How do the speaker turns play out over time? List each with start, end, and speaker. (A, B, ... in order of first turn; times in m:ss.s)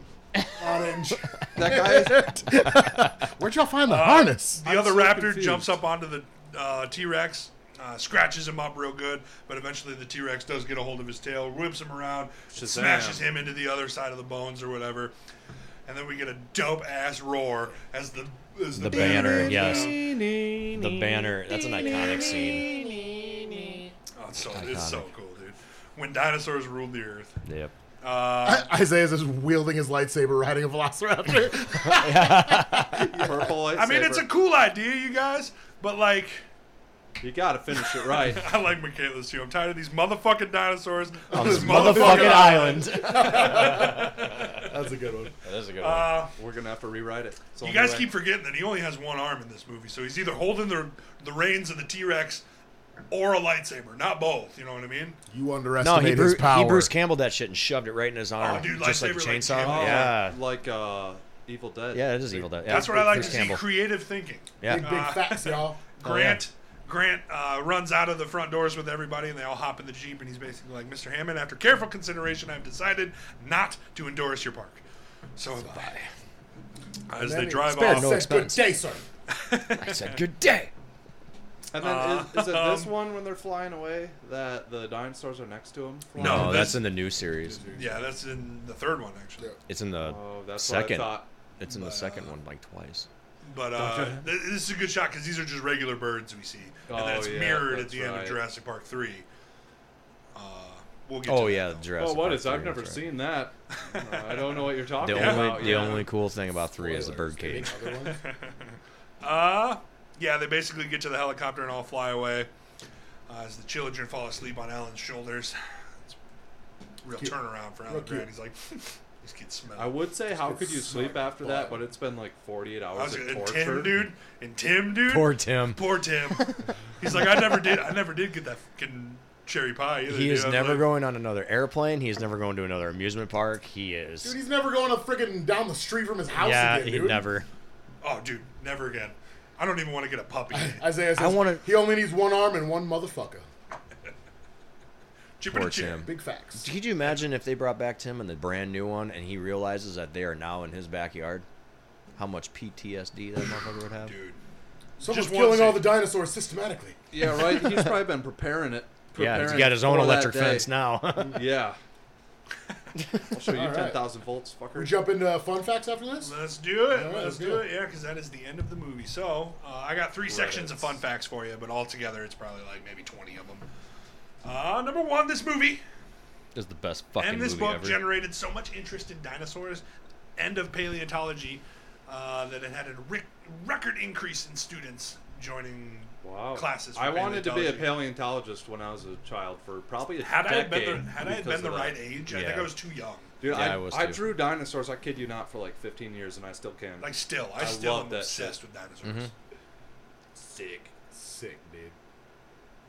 0:00.6-0:04.6 A
0:01.6-0:02.4 B
0:03.9-0:15.1 C
0:04.6-0:05.7 B
0:12.5-0:13.3 B
0:15.9-0:20.1 C
0:18.7-0:20.0 D
0:18.9-0:23.9 B
0:20.7-0:22.7 D
0:22.2-0:22.8 A
0:24.2-0:27.4 C
0:24.4-0:25.1 D
0:27.4-0:27.7 D
0:28.0-0:28.7 C
0:28.4-0:33.5 A
0:31.8-0:33.1 D
0:33.0-0:34.3 B
0:33.7-0:36.4 C
0:37.2-0:38.5 B
0:38.2-0:44.7 C
0:41.3-0:44.5 D
0:41.3-0:45.4 A
0:45.4-0:46.2 D
0:45.8-0:46.3 C
0:46.4-0:48.1 B
0:47.6-0:52.4 C
0:53.1-0:55.2 C
0:55.3-0:56.9 A
0:55.8-1:00.4 D
0:58.4-1:00.2 C
0:59.5-1:02.8 B
1:01.9-1:03.6 D
1:02.6-1:14.8 C
1:02.8-1:03.5 A
1:04.6-1:04.9 D
1:04.6-1:05.9 A
1:06.0-1:06.4 D
1:15.4-1:15.9 C
1:15.6-1:16.1 D
1:17.1-1:18.2 C
1:17.2-1:19.0 A
1:17.7-1:18.7 D
1:19.3-1:20.2 C
1:19.7-1:20.7 D
1:21.7-1:26.8 B
1:21.8-1:22.9 C
1:26.2-1:26.8 C
1:26.2-1:27.6 D
1:27.4-1:28.0 A
1:27.7-1:29.5 C
1:29.7-1:33.1 D
1:30.0-1:31.3 B
1:31.6-1:32.3 C
1:33.4-1:39.3 C
1:33.7-1:34.3 B
1:36.9-1:38.4 B
1:40.3-1:41.8 C
1:41.2-1:43.1 D
1:42.0-1:46.1 B
1:43.8-1:46.1 C
1:45.0-1:47.7 D
1:46.8-1:48.2 A
1:48.0-1:52.5 C
1:53.3-1:56.2 C
1:57.0-2:00.0 C
1:57.9-1:58.3 A
1:59.8-2:04.0 B
2:00.4-2:01.8 A
2:02.9-2:10.9 C
2:05.1-2:06.6 D
2:10.1-2:14.4 D
2:14.2-2:17.2 A
2:16.4-2:17.5 D
2:18.0-2:20.8 C
2:20.5-2:23.4 A
2:21.2-2:21.6 D
2:25.4-2:26.1 C
2:25.5-2:31.4 D
2:26.0-2:26.6 A
2:32.2-2:34.1 D
2:34.1-2:34.4 C
2:35.0-2:37.0 A
2:35.0-2:36.0 C
2:37.1-2:40.7 B
2:37.6-2:37.9 D
2:39.2-2:41.4 D
2:41.2-2:41.8 B
2:43.3-2:45.0 B
2:43.5-2:44.0 A
2:44.7-2:46.4 A
2:46.2-2:53.6 C
2:46.9-2:47.6 A
2:50.3-2:51.0 B
2:54.4-2:55.8 C
2:56.5-2:58.0 D
2:57.2-2:59.8 C
3:00.4-3:08.0 C
3:06.2-3:12.0 B
3:10.2-3:13.3 C
3:12.3-3:12.7 D
3:13.4-3:18.6 B
3:13.4-3:14.3 D
3:17.0-3:19.3 C
3:19.0-3:19.3 D
3:20.5-3:21.9 A